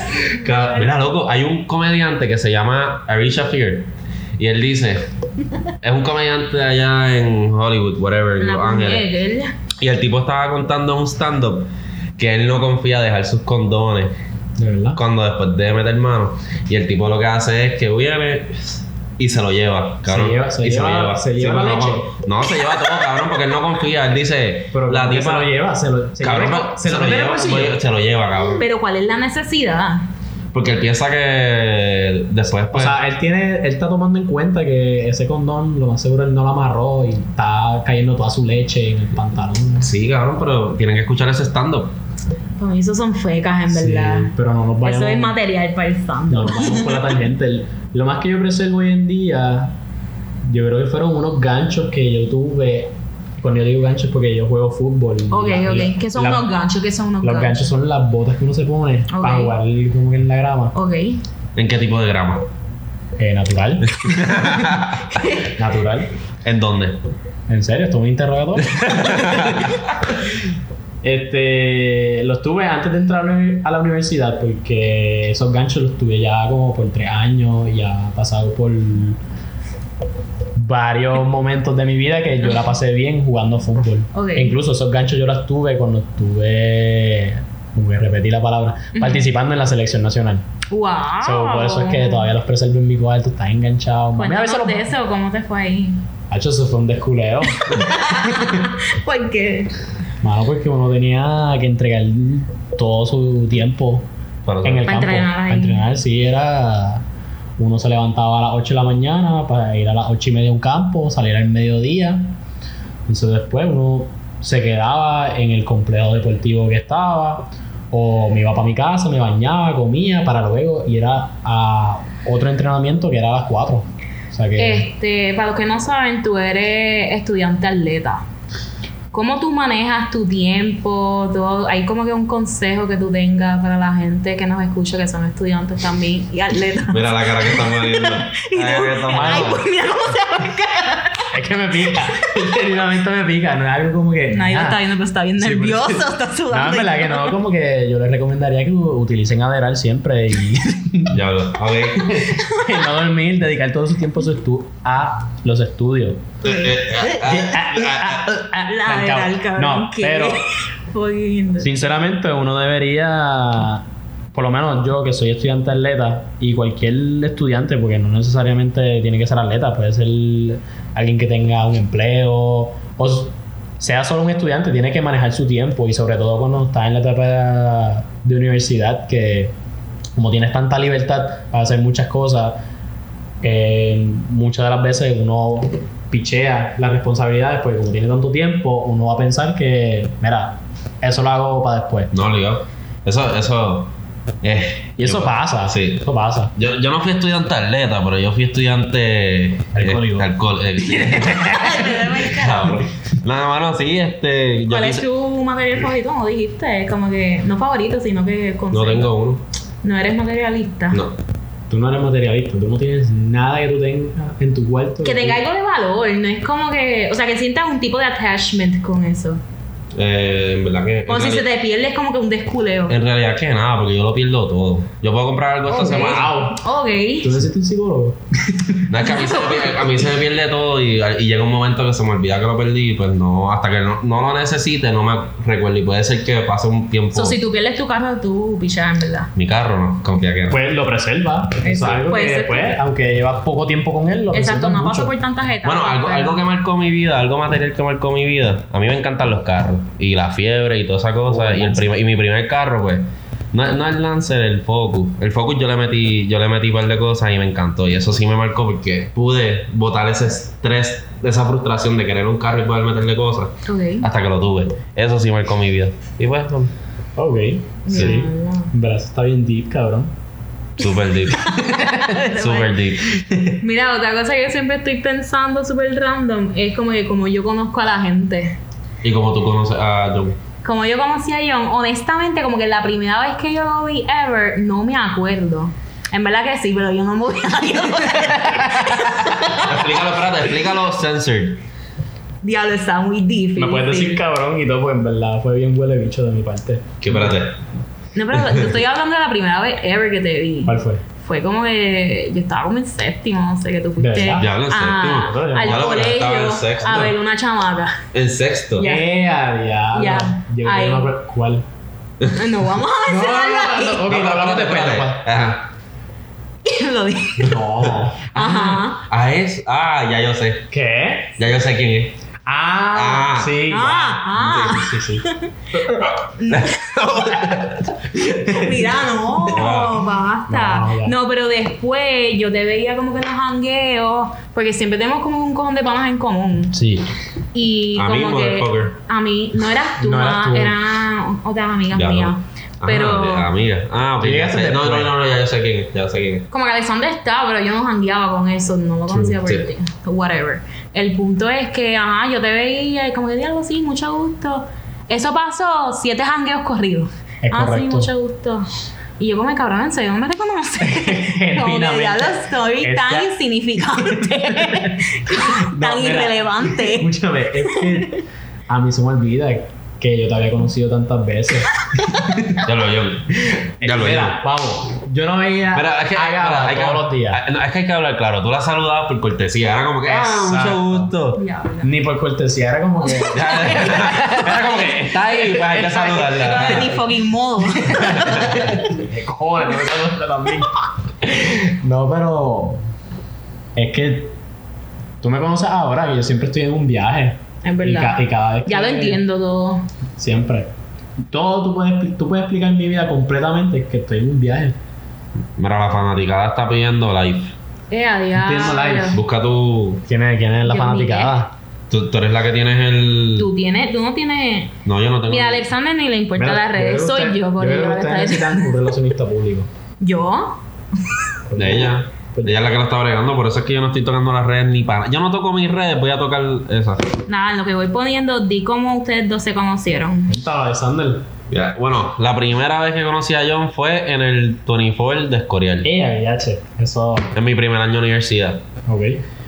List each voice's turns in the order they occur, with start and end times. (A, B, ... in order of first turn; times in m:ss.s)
0:00.3-0:00.9 A
0:00.4-0:05.1 B
0:05.8-0:09.0 B
0:08.4-0:09.5 A
0:09.8-0:14.1 B
0:14.6-0:15.0 C
0:14.9-0:25.5 B
0:20.0-0:22.1 C
0:24.7-0:27.8 C
0:26.2-0:28.6 B
0:28.6-0:30.0 A
0:30.5-0:33.0 B
0:32.7-0:39.9 C
0:39.8-0:41.9 B
0:42.6-0:44.3 A
0:43.7-0:45.4 C
0:44.8-0:47.1 A
0:46.3-0:49.8 C
0:50.4-0:56.5 C
0:55.3-0:57.6 A
0:57.2-1:00.7 C
0:59.1-0:59.5 A
1:00.7-1:01.2 A
1:01.5-1:02.5 B
1:03.2-1:04.0 C
1:03.9-1:05.2 B
1:05.1-1:05.5 A
1:05.5-1:06.1 C
1:06.4-1:07.0 B
1:07.5-1:09.5 C
1:08.6-1:09.8 B
1:11.0-1:19.2 C
1:20.5-1:30.4 C
1:24.1-1:24.5 A
1:28.9-1:29.2 A
1:30.7-1:32.3 A
1:31.2-1:34.8 C
1:34.2-1:36.0 A
1:36.3-1:37.9 C
1:37.6-1:39.7 A
1:40.2-1:44.1 C
1:44.4-1:44.9 B
1:44.6-1:47.0 C
1:44.8-1:45.8 A
1:47.6-1:52.3 C
1:53.1-2:04.9 C
2:04.6-2:08.2 A
2:09.1-2:21.3 A
2:16.9-2:19.6 B
2:19.1-2:19.6 C
2:21.3-2:24.8 C
2:24.3-2:27.4 A
2:25.4-2:31.2 C
2:31.1-2:32.2 B
2:32.0-2:36.2 C
2:32.2-2:32.8 A
2:36.4-2:37.2 A
2:36.4-2:38.3 B
2:37.1-2:40.4 C
2:38.6-2:41.7 A
2:41.6-2:59.5 C
3:00.1-3:02.6 C
3:03.4-3:12.1 C
3:12.1-3:13.9 B
3:14.4-3:25.0 B
3:15.0-3:16.5 C
3:19.7-3:20.3 C
3:21.0-3:21.8 C
3:21.4-3:22.8 A
3:24.7-3:29.1 A
3:28.7-3:29.4 B
3:29.8-3:31.0 A
3:31.7-3:35.4 C
3:35.0-3:39.4 A
3:39.9-3:41.4 B
3:41.1-3:43.0 A
3:42.9-3:46.3 B
3:45.7-3:47.4 A
3:45.7-3:46.6 C
3:47.2-3:48.8 C
3:48.9-3:57.4 B
3:49.0-3:49.8 A
3:57.1-3:59.3 A
3:59.4-4:00.6 B
4:00.5-4:05.1 C
4:01.6-4:02.8 A
4:04.3-4:06.4 A
4:05.6-4:26.7 B
4:11.2-4:11.9 C
4:23.6-4:24.1 A
4:27.2-4:30.1 C
4:27.8-4:28.7 A
4:27.9-4:28.2 B
4:30.8-4:31.5 B
4:31.3-4:32.8 A
4:32.1-4:33.2 B
4:33.4-4:38.6 A
4:39.0-4:40.4 B
4:40.6-4:49.8 A
4:48.2-4:49.0 C
4:49.5-4:51.6 B
4:52.4-4:54.2 A
4:53.6-4:57.4 C
4:57.0-4:57.6 B
4:58.1-5:08.0 A
4:58.3-4:58.7 B
5:00.6-5:01.0 C
5:04.0-5:04.5 C
5:04.4-5:07.1 B
5:05.2-5:06.0 C
5:08.1-5:08.9 B
5:08.8-5:09.1 A
5:08.8-5:11.6 C
5:09.9-5:11.1 A
5:12.3-5:14.0 A
5:13.1-5:15.2 C
5:14.0-5:15.7 B
5:16.6-5:17.6 A
5:17.4-5:18.2 C
5:17.5-5:20.7 B
5:18.3-5:19.0 A
5:20.7-5:21.3 C
5:21.4-5:22.1 B
5:22.4-5:25.2 C
5:22.9-5:23.6 B
5:23.7-5:27.0 A
5:24.4-5:24.8 B
5:26.5-5:28.4 B
5:28.3-5:36.8 A
5:29.4-5:30.0 B
5:30.5-5:31.2 C
5:36.7-5:37.1 C
5:37.5-5:43.5 A
5:37.9-5:39.0 B
5:40.0-5:40.8 C
5:41.9-5:46.5 B
5:44.2-5:45.1 C
5:46.5-5:58.6 A
5:49.1-5:49.4 C
5:57.4-5:58.1 C
5:59.2-6:07.1 A
6:00.8-6:03.3 C
6:04.0-6:08.1 C
6:07.6-6:08.2 A
6:08.7-6:12.6 C
6:12.6-6:14.4 B
6:13.8-6:17.4 C
6:15.7-6:21.4 B
6:20.0-6:21.1 C
6:21.4-6:21.9 A
6:21.8-6:27.0 C
6:23.0-6:24.6 A
6:23.3-6:27.0 B
6:26.2-6:28.8 A
6:27.9-6:32.8 C
6:28.0-6:28.8 B
6:33.8-6:34.3 C
6:35.2-6:39.2 C
6:37.6-6:39.8 A
6:40.2-6:40.7 C
6:41.3-6:44.8 C
6:45.6-6:47.5 B
6:47.9-6:49.2 A
6:48.3-6:49.2 C
6:49.1-6:50.0 B
6:50.1-6:51.5 C
6:50.6-6:51.3 A
6:51.9-6:53.5 B
6:53.4-6:54.7 A
6:54.8-6:55.6 B
6:55.3-6:58.7 A
6:56.4-6:59.7 C
7:00.0-7:01.2 A
7:01.5-7:02.6 C
7:01.6-7:07.1 B
7:07.3-7:10.3 A
7:10.3-7:11.2 C
7:11.5-7:15.9 B
7:15.8-7:17.3 C
7:17.3-7:18.6 B
7:18.8-7:19.2 C